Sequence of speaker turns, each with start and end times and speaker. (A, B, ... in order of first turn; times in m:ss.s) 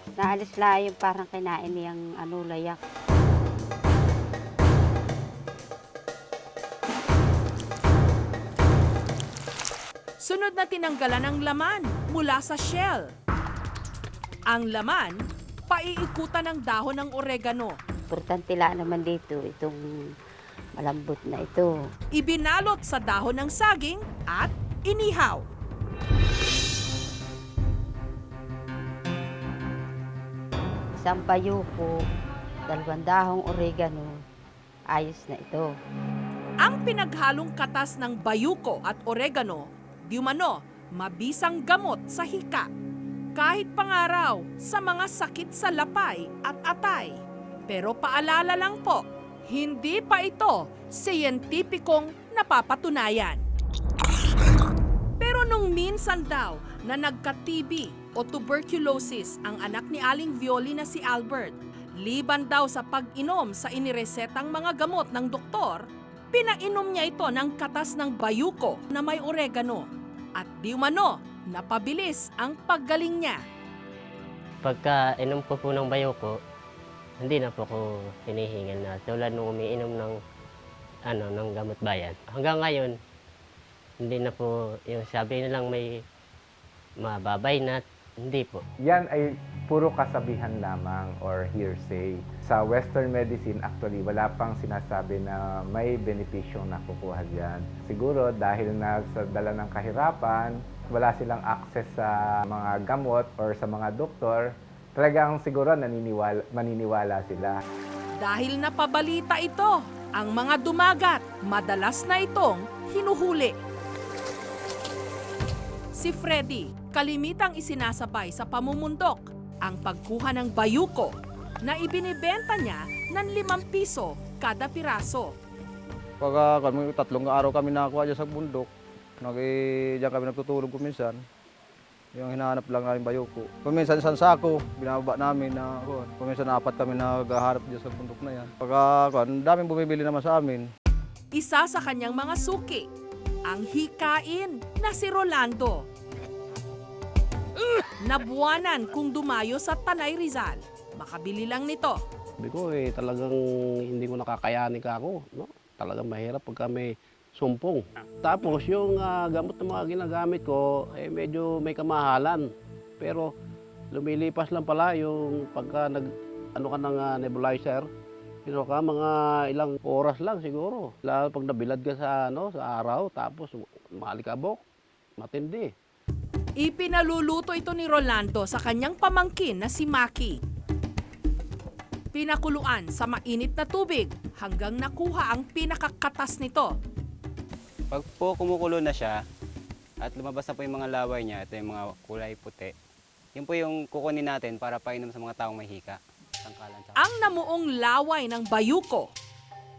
0:00.2-0:02.8 A
0:10.2-0:13.1 B
0:14.5-0:17.8 B
0:18.1-0:20.1 A
0:20.8-0:21.8 A
0:22.1-0:25.4 B
0:31.0-0:32.0 A
0:32.7-0:34.1 A
0:34.9-0:35.7 A
0:36.6-0:42.7 B
0:43.4-0:53.4 B
0:55.2-1:13.4 B
1:14.6-1:16.4 C
1:17.2-1:20.2 C
1:21.0-1:22.9 C
1:24.0-1:26.0 C
1:27.0-1:28.6 C
1:28.8-1:47.6 D
1:48.2-1:53.6 B
1:55.9-2:05.4 B
2:06.2-2:11.2 E
2:12.1-2:20.7 E
2:21.3-2:22.9 B
2:23.4-2:25.9 B
2:28.0-2:32.0 B
2:32.4-2:33.4 F
2:33.9-2:42.4 F
2:43.0-2:43.3 F
2:43.9-2:47.9 F
2:48.5-2:54.6 F
2:55.2-2:55.7 F
2:56.6-3:00.4 B
3:02.1-3:06.7 B
3:07.9-3:09.2 G
3:10.0-3:12.7 G
3:13.3-3:17.0 G
3:17.0-3:19.1 B